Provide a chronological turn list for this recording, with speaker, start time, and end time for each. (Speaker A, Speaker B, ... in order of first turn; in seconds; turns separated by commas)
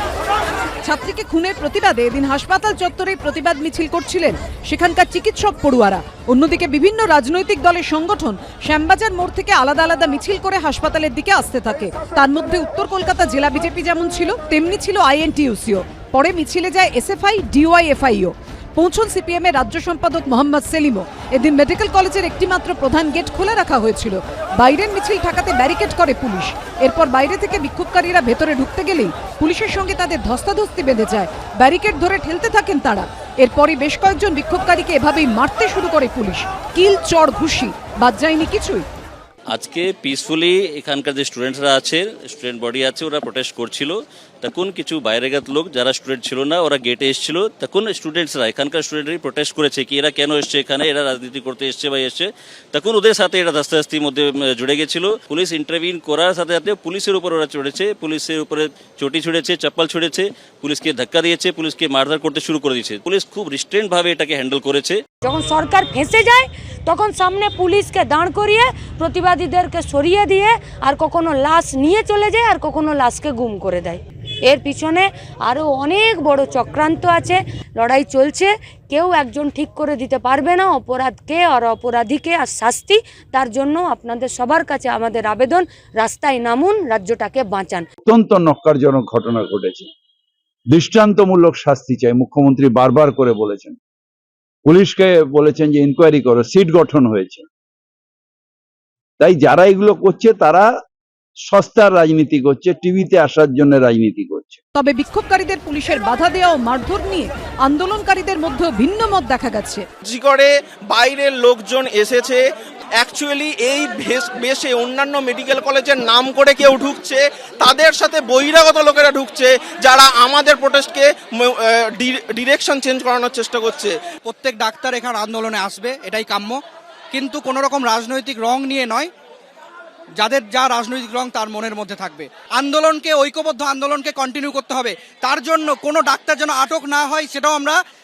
Speaker A: 0.8-38.8, Speaker B: 39.5-65.0, Speaker C: 65.2-87.8, Speaker D: 88.0-89.9, Speaker D: 90.7-93.8, Speaker D: 94.6-97.5, Speaker D: 99.2-100.7, Speaker D: 101.5-104.6, Speaker A: 104.7-109.8, Speaker E: 110.0-112.4, Speaker E: 113.0-123.9, Speaker F: 124.2-126.6, Speaker F: 127.1-129.1, Speaker F: 130.2-137.8